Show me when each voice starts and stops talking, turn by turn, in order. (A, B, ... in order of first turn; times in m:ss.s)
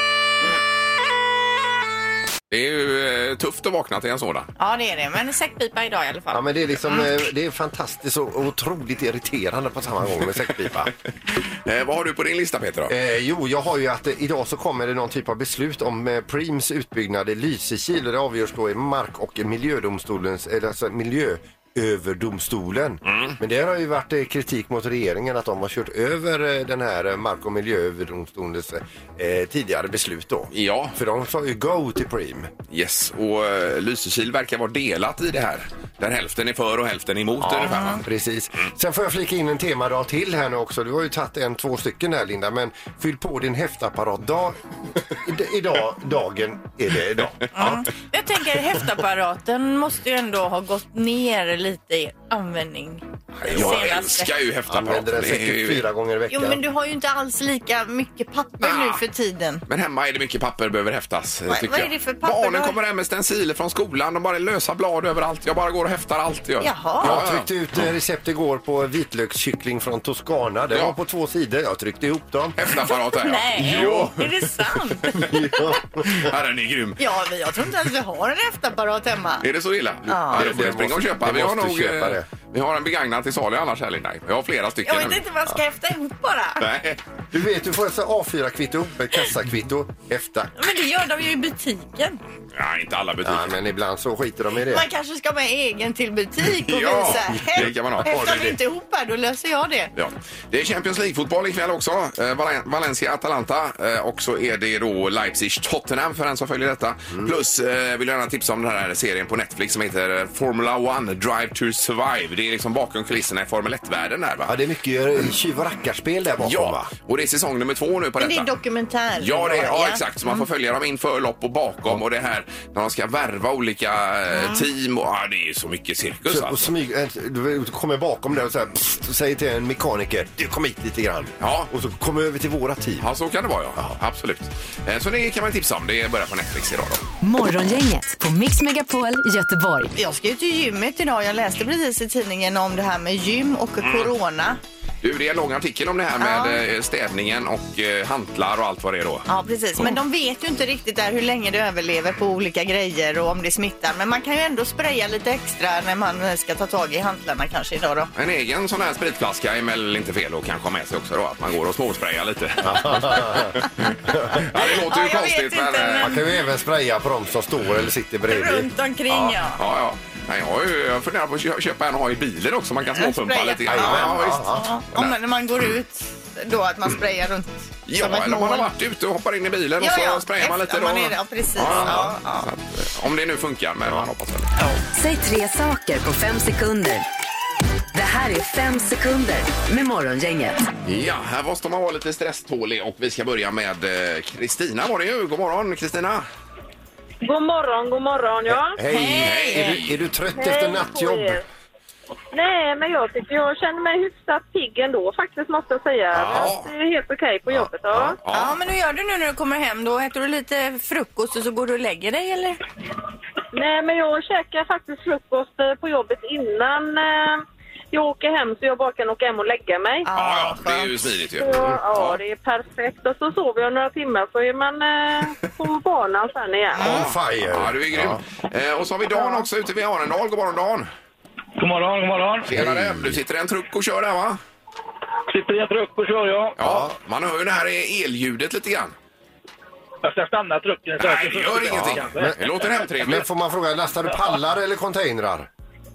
0:02.5-0:04.5 A
0:04.6-0:07.0 B
0:06.3-0:10.9 C
0:11.5-0:12.9 A
0:12.9-0:32.5 C
0:23.1-0:23.4 A
0:30.5-0:31.0 A
0:32.7-0:38.0 A
0:37.4-0:47.9 C
0:37.7-0:38.0 B
0:47.5-0:54.3 B
0:53.4-0:53.8 C
0:53.5-0:55.8 A
0:54.7-0:56.6 C
0:56.3-0:59.6 B
0:58.6-0:59.0 A
0:59.7-1:07.9 A
1:01.5-1:02.8 B
1:06.6-1:07.1 B
1:07.0-1:12.6 C
1:12.6-1:14.5 A
1:13.1-1:15.8 B
1:13.6-1:14.1 C
1:15.0-1:15.3 A
1:15.1-1:16.3 C
1:16.0-1:17.0 A
1:17.0-1:19.4 B
1:19.4-1:25.2 A
1:20.1-1:20.4 B
1:20.3-1:22.3 C
1:24.8-1:26.6 B
1:26.6-1:27.0 A
1:27.3-1:30.5 C
1:30.6-1:32.2 B
1:32.5-1:33.6 A
1:33.2-1:34.8 C
1:34.7-1:39.9 B
1:36.6-1:38.1 A
1:37.3-1:38.6 C
1:39.9-1:54.6 A
1:54.5-1:56.9 C
1:56.4-1:58.5 A
1:58.2-2:00.0 B
1:59.2-2:06.7 A
2:04.4-2:04.6 B
2:06.3-2:13.0 C
2:11.4-2:11.7 A
2:13.0-2:17.0 A
2:17.2-2:19.9 D
2:19.9-2:24.6 B
2:23.8-2:24.1 A
2:25.0-2:29.3 A
2:26.2-2:26.6 B
2:29.3-2:38.1 B
2:38.1-2:46.2 A
2:42.6-2:44.4 C
2:44.5-2:46.2 B
2:46.0-2:48.7 C
2:48.3-2:49.6 B
2:49.1-2:55.1 A
2:52.9-2:58.7 B
2:53.7-2:54.6 C
2:57.9-3:04.5 A
2:59.8-3:02.5 B
3:01.7-3:02.1 C
3:04.9-3:07.0 D
3:07.9-3:10.7 D
3:10.8-3:16.2 A
3:17.2-3:18.8 E
3:18.5-3:21.4 C
3:18.9-3:19.8 B
3:19.2-3:20.0 A
3:20.3-3:21.4 E
3:22.3-3:28.2 E
3:26.1-3:26.5 C
3:26.1-3:26.7 A
3:27.5-3:28.6 A
3:28.3-3:32.6 B
3:33.5-3:40.0 E
3:40.0-3:41.0 B
3:40.1-3:42.2 A
3:41.4-3:47.0 E
3:46.7-3:47.1 B
3:46.8-3:48.2 C
3:46.8-3:50.9 A
3:51.6-3:52.5 F
3:52.4-3:54.4 A
3:52.5-3:53.2 C
3:55.3-3:56.5 F
3:56.6-3:58.9 A
3:56.6-3:56.9 C
4:00.0-4:02.3 F
4:01.0-4:03.2 A
4:03.0-4:05.5 C